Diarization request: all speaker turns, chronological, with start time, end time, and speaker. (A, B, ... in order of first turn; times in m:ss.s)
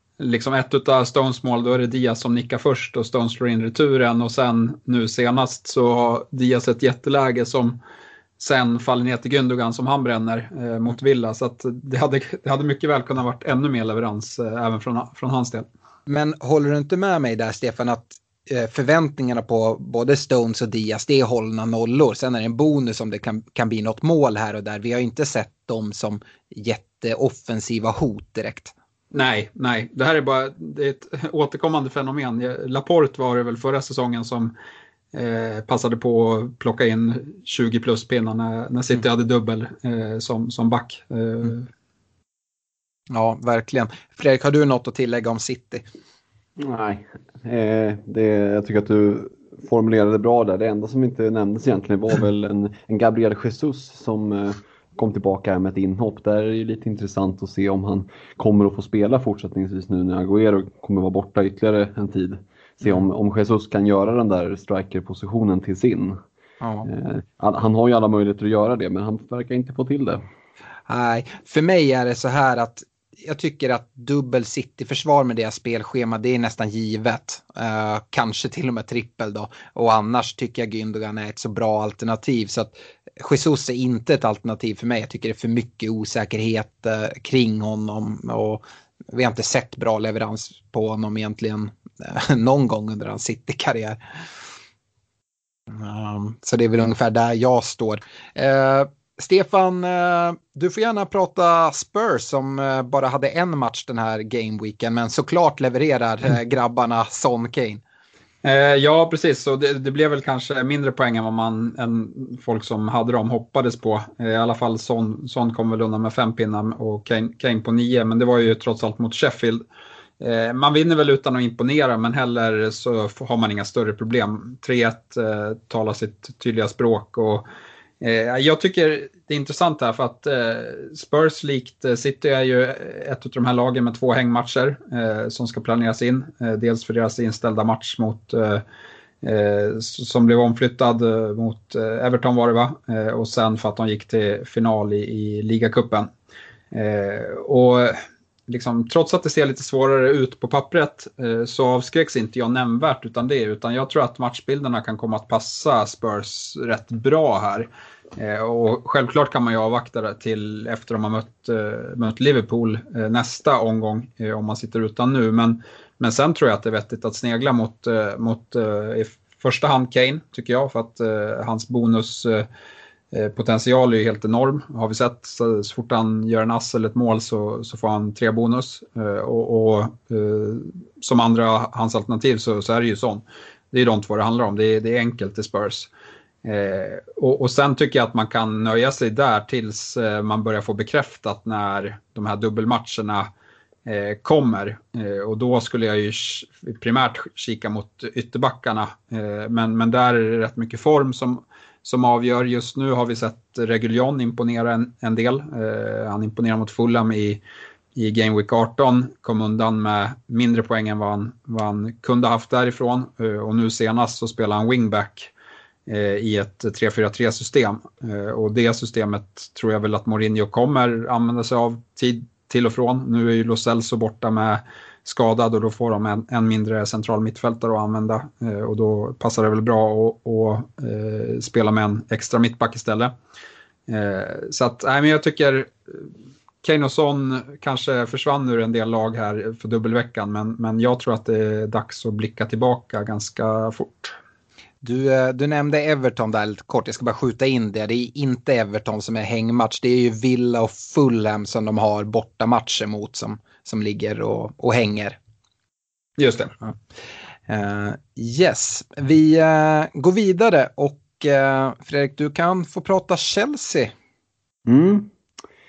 0:00.2-0:07.8 A
0:08.4-0:15.7 A
0:16.1-0:28.7 B
0:29.1-0:34.5 A
0:35.1-0:41.7 A
0:43.1-0:45.8 B
0:46.6-1:06.2 C
1:06.6-1:06.9 B
1:06.9-1:10.2 C
1:10.9-1:34.0 B
1:35.7-1:47.8 B
1:48.4-1:59.6 A
2:00.2-2:07.4 A
2:08.0-2:18.6 A
2:19.2-2:26.1 A
2:26.7-2:52.5 A
2:53.1-3:05.9 A
3:06.4-3:13.3 A
3:13.8-3:27.4 A
3:28.0-3:35.3 A
3:35.9-3:53.1 A
3:53.9-3:56.1 A
3:56.6-4:04.2 A
4:04.8-4:15.2 B
4:16.2-4:16.7 A
4:17.5-4:23.9 B
4:24.7-4:25.1 C